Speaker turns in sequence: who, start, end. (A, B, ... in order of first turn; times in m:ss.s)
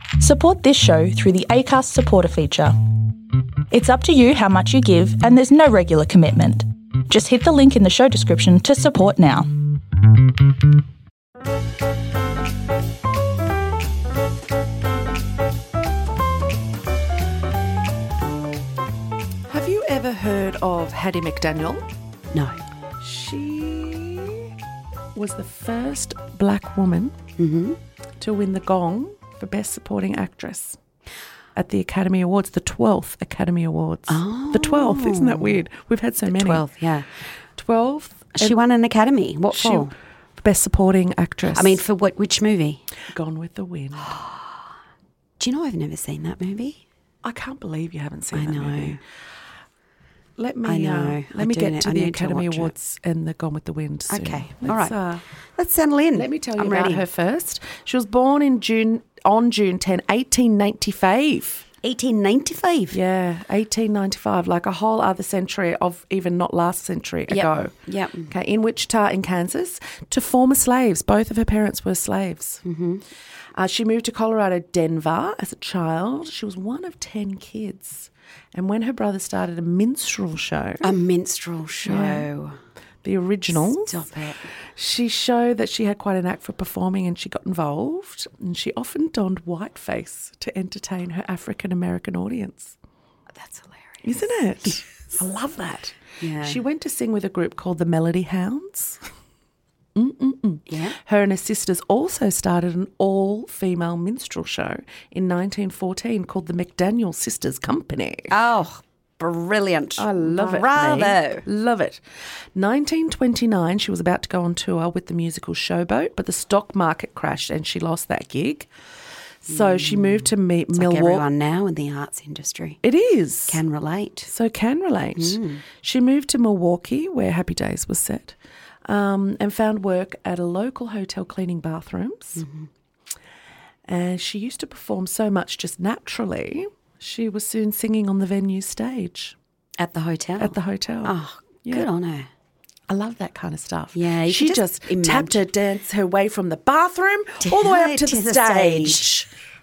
0:00.2-0:02.8 A
0:03.7-0:09.5 A
0:19.5-0:21.9 B
0:22.3-0:22.6 C
0:23.0-0:24.5 B
0:25.2-0:27.2 B
0:27.4-0:27.8 C
0:28.2-0:30.8 B
0:31.6-0:36.7 B
0:34.1-0:35.6 C
0:36.3-0:37.1 C
0:37.6-0:38.6 B
0:38.4-0:39.9 C
0:39.5-0:41.8 B
0:41.5-0:42.8 C
0:43.1-0:44.2 B
0:44.0-0:44.6 C
0:45.4-0:46.8 C
0:47.2-0:49.0 B
0:48.3-0:49.0 C
0:50.4-0:55.2 B
0:50.6-0:52.7 C
0:54.1-0:55.0 C
0:55.6-0:57.1 C
0:56.1-1:01.7 B
1:01.8-1:03.0 C
1:02.9-1:07.7 B
1:07.3-1:08.3 C
1:08.3-1:12.6 B
1:12.6-1:13.0 C
1:13.5-1:20.9 B
1:20.8-1:22.6 C
1:21.8-1:22.3 B
1:23.0-1:24.0 B
1:23.5-1:24.5 C
1:24.8-1:32.8 B
1:33.4-1:35.2 C
1:34.0-1:39.1 B
1:36.2-1:36.6 C
1:40.0-1:48.3 B
1:40.7-1:41.0 C
1:48.3-1:51.5 C
1:50.0-1:52.0 B
1:52.5-1:58.7 B
1:59.4-2:01.2 B
1:59.5-2:02.8 C
2:02.8-2:03.6 B
2:03.5-2:04.3 C
2:04.3-2:12.4 B
2:05.2-2:05.6 C
2:12.4-2:12.7 C
2:13.9-2:19.4 B
2:19.8-2:22.3 C
2:20.4-2:21.9 B
2:22.9-2:29.3 B
2:23.9-2:25.4 C
2:27.4-2:29.2 C